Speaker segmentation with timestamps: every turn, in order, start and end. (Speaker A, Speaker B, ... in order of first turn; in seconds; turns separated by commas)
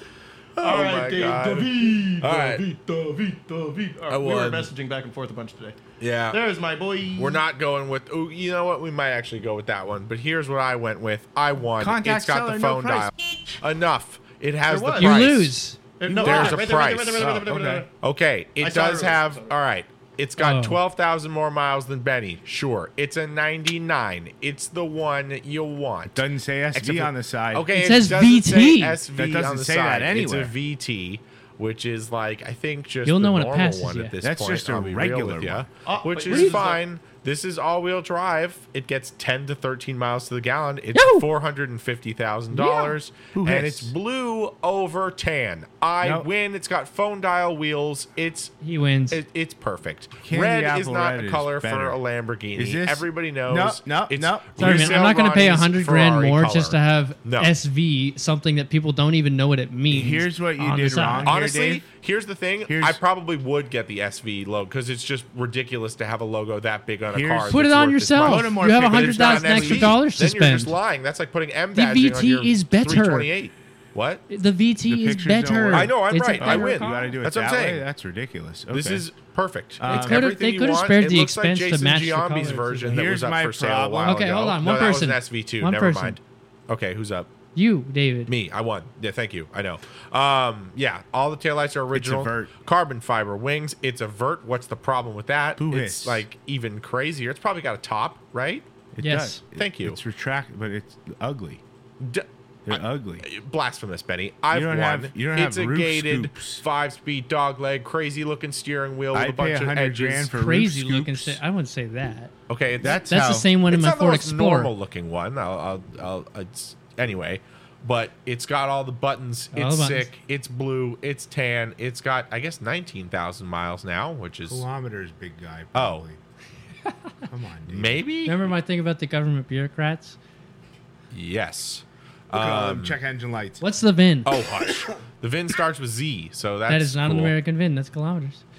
Speaker A: 0.6-2.6, Speaker B: 0.6-5.8, Speaker A: 4.1-4.7, Speaker A: 6.0-6.4, Speaker B: 6.3-7.4, Speaker A: 7.2-15.5, Speaker C: 11.8-13.6, Speaker B: 14.7-15.2, Speaker D: 15.0-15.8, Speaker B: 16.0-17.9, Speaker C: 16.1-17.9, Speaker A: 16.2-17.3, Speaker A: 18.0-48.5, Speaker B: 18.6-19.6, Speaker D: 20.4-20.8, Speaker C: 26.1-27.7, Speaker D: 27.7-29.0, Speaker C: 29.1-30.5, Speaker D: 33.0-34.1, Speaker C: 34.2-35.7, Speaker B: 35.9-36.8, Speaker D: 36.3-36.6, Speaker D: 40.9-41.3, Speaker D: 42.5-43.0, Speaker C: 43.3-43.9, Speaker C: 46.0-46.3, Speaker D: 48.6-49.2, Speaker A: 49.1-57.5, Speaker C: 50.2-52.0, Speaker C: 52.5-54.9, Speaker D: 54.6-61.4, Speaker C: 59.9-61.8, Speaker A: 61.2-74.2, Speaker C: 62.7-63.0, Speaker C: 67.1-70.0, Speaker D: 67.5-70.8, Speaker D: 71.7-73.3, Speaker D: 74.3-77.2, Speaker C: 74.9-79.0, Speaker A: 75.7-77.8, Speaker A: 78.7-87.3, Speaker C: 79.8-80.2, Speaker D: 79.8-83.0, Speaker C: 82.9-84.2, Speaker D: 84.0-86.2, Speaker D: 87.5-88.3, Speaker A: 88.3-98.7, Speaker C: 91.9-92.5, Speaker C: 95.6-96.2, Speaker C: 98.9-101.6, Speaker D: 99.0-99.4, Speaker A: 99.5-100.0, Speaker A: 102.0-110.3, Speaker C: 102.7-103.2, Speaker C: 104.5-106.6, Speaker C: 109.1-111.4, Speaker D: 110.3-112.3, Speaker A: 112.5-124.6, Speaker C: 112.8-113.5, Speaker D: 113.1-114.7, Speaker D: 119.5-120.1, Speaker C: 124.5-126.2, Speaker A: 125.7-126.0, Speaker C: 127.3-128.0, Speaker A: 127.7-128.5, Speaker D: 128.2-130.2, Speaker A: 131.1-133.0, Speaker C: 132.3-133.6, Speaker D: 133.6-134.3, Speaker A: 134.2-137.3, Speaker D: 136.7-138.4